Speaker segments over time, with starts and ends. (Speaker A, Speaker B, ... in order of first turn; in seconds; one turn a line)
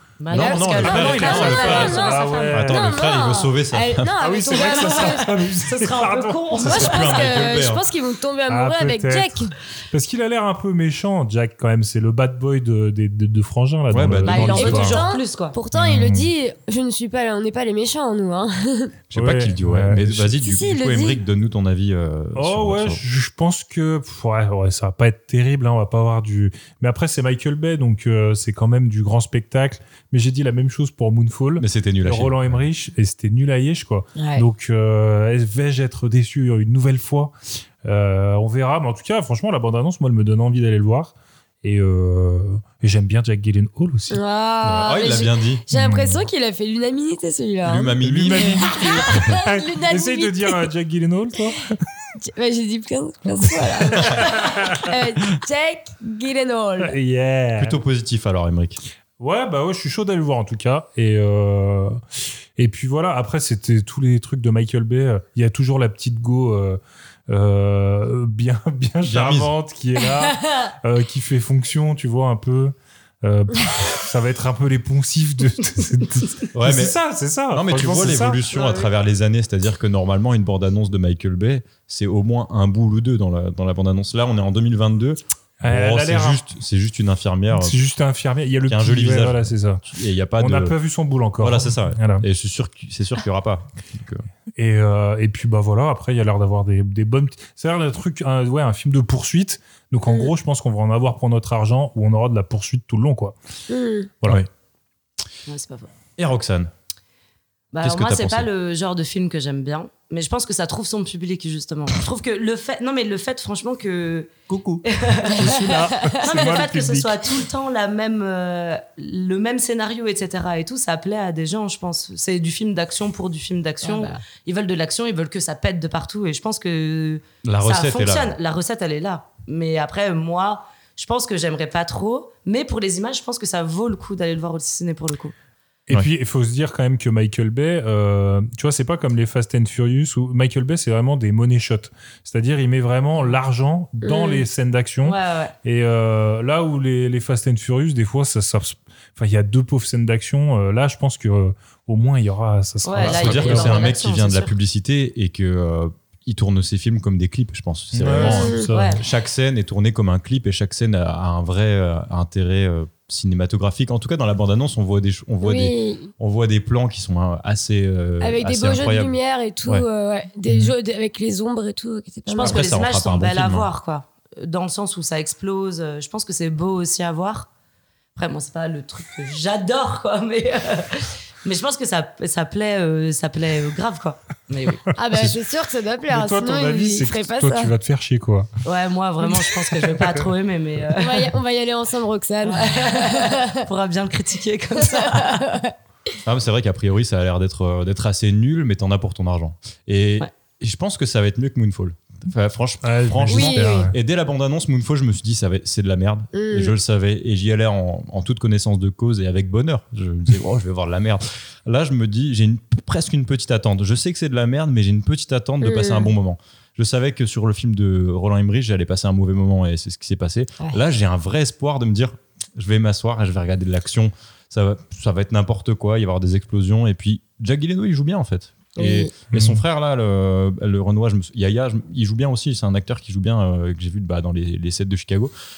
Speaker A: 0.2-2.6
Speaker B: 0.3-1.9
Speaker C: 0.3-5.3
Speaker D: 0.4-2.8
Speaker B: 2.5-4.1
Speaker D: 4.2-6.8
Speaker A: 4.5-7.3
Speaker C: 6.6-9.5
Speaker B: 6.6-7.8
Speaker D: 8.5-14.9
Speaker B: 13.9-15.0
Speaker A: 14.2-15.6
Speaker C: 14.5-18.9
Speaker D: 15.7-16.3
Speaker B: 19.1-23.0
Speaker D: 19.1-20.3
Speaker C: 20.4-21.2
Speaker D: 22.4-44.2
Speaker B: 31.6-32.6
Speaker C: 34.1-34.4
Speaker C: 44.1-50.7
Speaker B: 44.6-45.6
Speaker D: 45.7-46.2
Speaker B: 47.6-48.7
Speaker D: 48.0-51.7
Speaker C: 52.2-56.9
Speaker D: 53.6-54.9
Speaker D: 56.8-57.8
Speaker B: 57.6-58.8
Speaker D: 59.2-62.0
Speaker D: 62.5-78.4
Speaker B: 69.0-69.5
Speaker C: 70.4-70.7
Speaker B: 76.5-77.0
Speaker B: 77.5-87.8
Speaker D: 85.6-86.4
Speaker D: 87.5-89.8
Speaker B: 88.7-90.7
Speaker D: 90.4-92.2
Speaker B: 91.4-94.2
Speaker D: 94.6-103.3
Speaker C: 100.1-100.3
Speaker C: 103.7-104.1
Speaker A: 105.5-105.9
Speaker B: 106.2-106.7
Speaker A: 107.7-114.3
Speaker B: 107.8-108.5
Speaker B: 114.5-114.8
Speaker A: 114.8-135.3
Speaker D: 115.3-117.2
Speaker C: 115.7-116.2
Speaker C: 123.8-124.2
Speaker B: 127.4-128.3
Speaker D: 135.9-153.9
Speaker C: 144.0-144.4
Speaker A: 145.0-145.5
Speaker A: 152.8-154.5
Speaker B: 153.0-169.8
Speaker D: 157.9-159.0
Speaker C: 158.2-158.6
Speaker A: 158.7-159.0
Speaker C: 165.4-166.1
Speaker C: 168.2-172.6
Speaker A: 172.3-177.5
Speaker B: 172.4-173.7
Speaker A: 178.2-184.9
Speaker C: 184.9-187.7
Speaker D: 186.1-188.5
Speaker A: 188.6-191.3
Speaker D: 189.8-190.1
Speaker C: 191.0-193.6
Speaker A: 192.4-195.5
Speaker C: 194.8-195.7
Speaker B: 196.2-235.3
Speaker D: 202.8-203.9
Speaker C: 203.3-203.9
Speaker C: 206.3-206.7
Speaker C: 215.6-216.1
Speaker C: 228.8-229.1
Speaker D: 229.3-229.6